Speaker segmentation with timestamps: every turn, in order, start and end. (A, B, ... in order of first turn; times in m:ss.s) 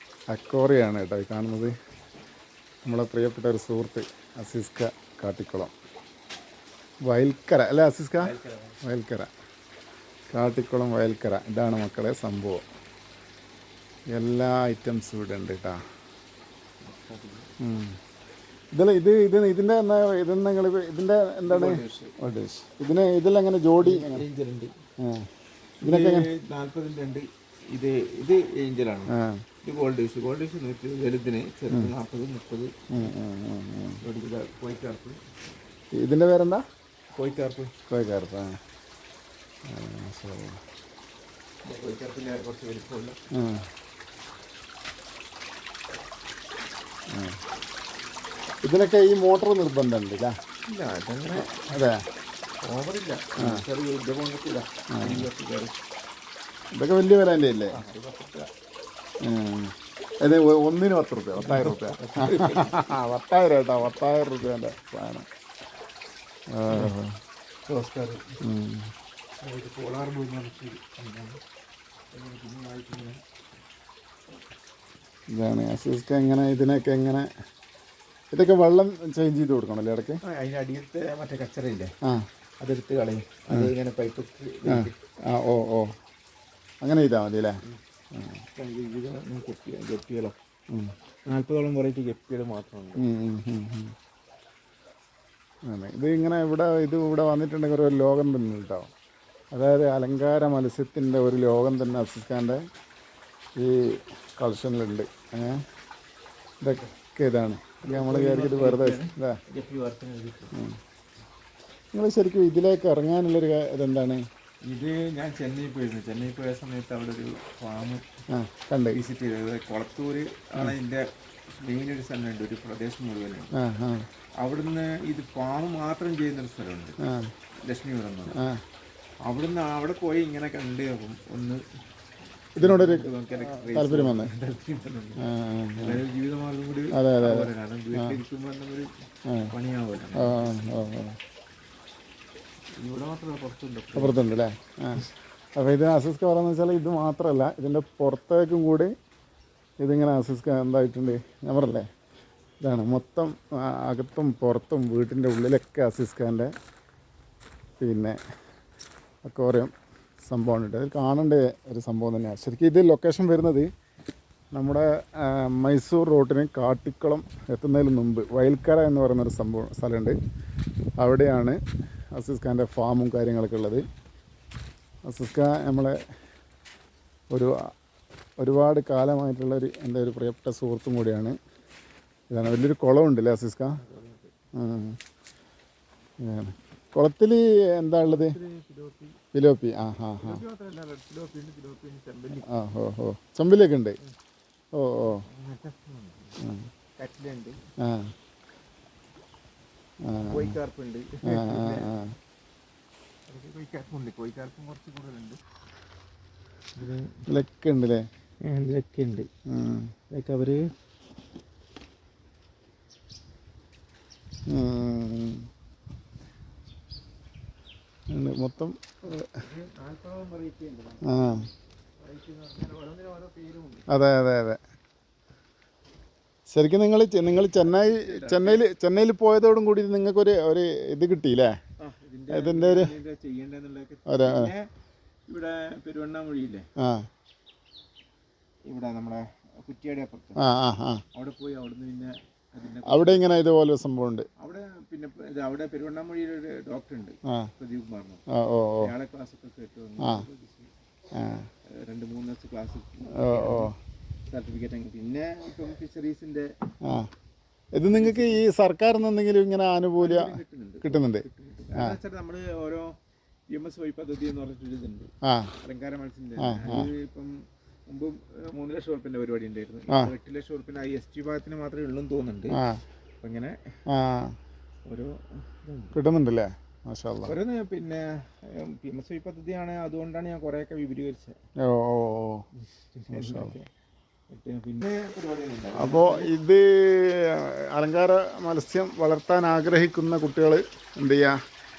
0:00.3-0:01.7 A
0:02.8-0:05.7 A
0:07.0-0:09.3 A
0:08.2-0:08.8 B
0:10.3-0:12.6 A
0:14.1-0:15.8 A
0:16.8-0:17.5 B
0:17.6-0:18.0 A
0:18.7-0:24.2 A
0:21.4-0:22.2 B
0:23.8-0:24.7 B
0:25.0-0:25.3 A
0:25.8-0:29.1 B
0:25.8-0:26.3 A
0:29.1-0:29.4 A
0:29.6-0:33.1 B
0:32.9-0:34.0 A
0:34.0-0:35.2 B
0:36.0-0:36.6 A
0:37.2-0:37.7 B
0:37.9-0:38.6 A
0:39.7-0:40.6 A
0:41.6-0:43.2 B
0:43.3-0:43.7 A
0:47.1-0:47.4 A
0:48.6-0:50.3 A
0:50.7-0:51.6 B
0:51.5-0:52.0 A
0:52.6-0:55.8 B
0:53.4-0:53.6 A
0:55.0-0:55.3 A
0:56.7-0:57.8 A
0:57.7-0:58.5 B
0:59.2-1:05.2 A
1:01.4-1:02.8 B
1:06.5-1:07.1 A
1:06.7-1:07.0 B
1:07.6-1:08.4 B
1:08.4-1:08.9 A
1:09.4-1:11.4 B
1:12.1-1:13.2 B
1:15.3-1:17.3 A
1:18.3-1:20.2 A
1:20.2-1:21.9 B
1:22.6-1:24.9 B
1:24.7-1:25.9 A
1:26.8-1:27.6 A
1:28.1-1:28.4 A
1:28.6-1:30.3 B
1:31.3-1:33.0 B
1:33.0-1:33.9 A
1:35.7-1:38.9 A
1:39.5-1:42.6 A
1:43.6-1:45.6 A
1:46.6-1:49.4 A
1:47.8-1:50.5 B
1:51.9-1:54.2 A
1:54.6-1:58.0 B
1:58.3-1:59.0 A
1:58.9-2:03.5 B
2:03.5-2:04.0 A
2:04.4-2:07.0 B
2:07.0-2:07.3 A
2:07.6-2:08.4 B
2:08.3-2:08.6 A
2:09.2-2:11.6 B
2:12.6-2:14.3 A
2:12.6-2:15.2 B
2:15.2-2:16.0 A
2:15.8-2:18.9 B
2:16.9-2:18.2 A
2:19.2-2:19.5 A
2:19.5-2:20.7 B
2:20.2-2:21.2 A
2:22.8-2:24.2 B
2:23.9-2:28.9 A
2:29.8-2:31.8 A
2:32.6-2:36.5 A
2:37.8-2:38.2 A
2:39.2-2:43.7 A
2:44.5-2:50.2 A
2:51.0-2:51.6 A
2:52.1-2:53.8 A
2:55.0-2:56.0 A
2:57.3-2:57.7 A
2:58.4-3:01.4 A
3:02.3-3:03.8 A
3:03.8-3:04.3 B
3:04.6-3:05.0 A
3:06.2-3:08.4 A
3:08.0-3:09.2 B
3:09.3-3:10.4 A
3:10.2-3:12.5 B
3:12.5-3:14.0 A
3:14.7-3:15.2 A
3:15.1-3:16.4 B
3:16.4-3:16.7 A
3:17.0-3:17.6 B
3:17.8-3:18.1 A
3:20.0-3:20.6 A
3:20.2-3:21.9 B
3:21.2-3:22.1 A
3:23.3-3:25.4 B
3:26.8-3:27.2 B
3:27.3-3:28.0 A
3:28.4-3:29.3 B
3:29.5-3:29.9 A
3:30.1-3:30.7 B
3:34.5-3:35.5 A
3:38.1-3:39.3 A
3:39.1-3:41.5 B
3:41.0-3:41.5 A
3:42.0-3:43.9 B
3:43.9-3:44.6 A
3:46.5-3:51.5 A
3:47.2-3:48.6 B
3:51.8-3:54.7 B
3:52.3-3:52.9 A
3:54.1-3:54.5 A
3:55.3-3:56.7 B
3:56.8-3:57.1 A
3:58.6-4:00.4 B
4:00.4-4:01.0 A
4:01.1-4:03.4 B
4:02.8-4:04.3 A
4:04.4-4:08.2 B
4:08.3-4:08.9 A
4:08.8-4:10.7 B
4:10.0-4:10.2 A
4:11.1-4:11.5 A
4:11.7-4:13.7 B
4:13.2-4:13.7 A
4:14.3-4:16.5 B
4:16.8-4:17.1 A
4:17.7-4:21.2 A
4:17.9-4:18.4 B
4:20.0-4:22.9 B
4:23.5-4:25.1 B
4:25.2-4:25.5 A
4:25.6-4:27.4 B
4:26.4-4:26.9 A
4:27.9-4:32.6 B
4:32.5-4:32.8 A
4:33.2-4:33.6 B
4:33.9-4:34.4 A
4:34.9-4:36.0 B
4:35.9-4:37.4 A
4:37.2-4:41.3 B
4:41.6-4:42.4 A
4:42.6-4:43.7 B
4:43.1-4:43.5 A
4:44.3-4:46.3 B
4:45.8-4:51.4 A